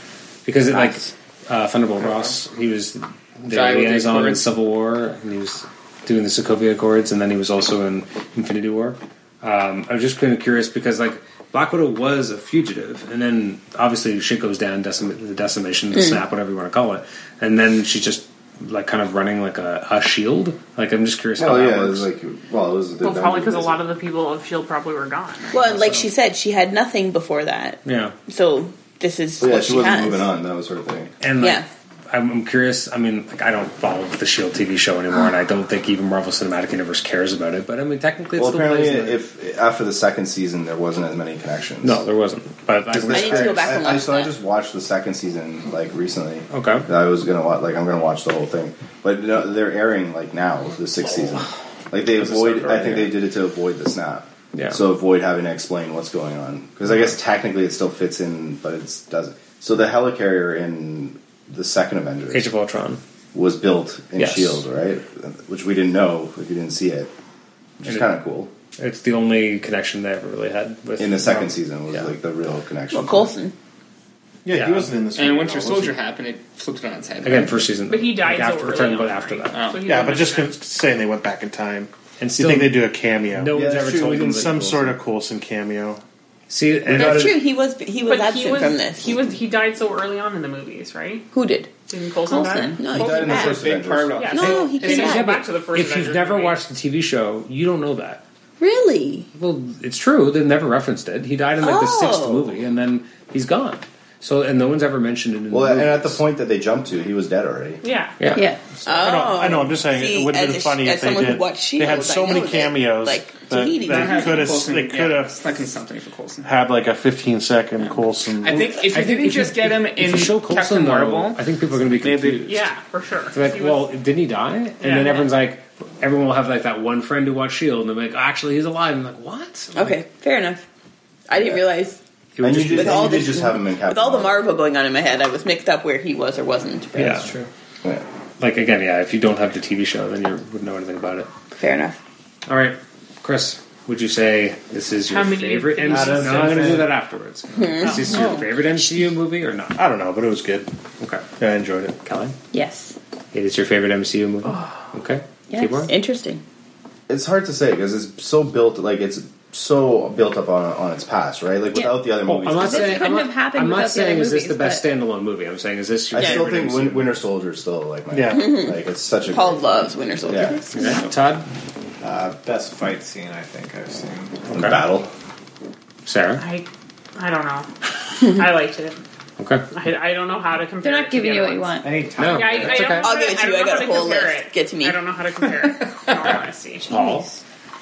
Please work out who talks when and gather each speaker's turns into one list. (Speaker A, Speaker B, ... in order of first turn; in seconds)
Speaker A: 0.4-22.1, 25.7-26.0, 27.8-28.1, 31.2-39.2, 41.8-43.8, 46.5-46.9, 52.2-53.1, 54.5-54.8, 62.3-63.0, 64.2-64.6, 67.8-68.1, 68.8-72.1, 74.5-74.9, 77.2-79.6, 82.2-82.8, 83.3-84.7, 86.5-87.4, 94.4-98.2, 99.3-106.2, 108.2-108.5, 118.9-122.7, 123.3-130.0, 132.3-133.3, 136.9-137.3, 138.4-141.3, 142.5-149.8, 152.0-152.3, 153.3-155.9, 162.2-167.2, 170.7-171.4, 174.5-174.8, 176.1-176.4, 179.4-179.6, 182.2-183.1, 186.2-187.3
Speaker B: 3.5-4.5, 75.1-77.7, 79.5-79.8, 92.9-94.6, 113.8-116.5, 118.4-121.4
Speaker C: 21.4-23.8, 29.4-31.1, 38.4-42.0, 42.9-62.5, 63.3-67.1, 67.8-68.5, 71.0-73.3, 83.5-84.9, 86.9-87.4, 92.8-94.3, 105.5-107.8, 132.4-134.4, 157.1-163.1, 166.1-170.5, 174.5-175.1
Speaker D: 23.0-25.6, 77.9-80.5, 88.0-91.3, 91.9-92.8, 94.2-96.6, 107.8-108.2, 122.4-123.9, 124.8-125.3, 145.1-146.8, 147.8-148.5, 154.4-154.8, 176.4-177.7, 178.2-179.0, 179.7-187.1
Speaker E: 25.5-30.3, 31.4-31.6, 43.1-44.3, 72.9-73.5, 86.9-89.1, 91.3-91.7, 92.2-93.7, 94.3-95.4, 98.6-99.3, 101.6-102.5, 108.8-114.6, 129.7-130.6, 131.3-132.0, 132.7-137.2, 141.5-142.0, 147.5-148.3, 155.9-156.4, 166.1-166.5, 168.3-171.1, 183.0-185.1
Speaker F: 74.4-76.0, 79.8-83.6, 84.3-86.0, 109.0-115.4, 116.4-118.8, 149.8-150.7, 151.4-152.0, 168.1-168.6
Speaker G: 108.3-108.6, 152.5-153.0, 155.5-155.9, 161.7-164.8, 170.7-171.0, 180.8-181.9, 186.9-187.4
Speaker H: 122.0-122.6, 137.2-137.5, 145.8-146.9, 172.0-174.4, 181.8-183.0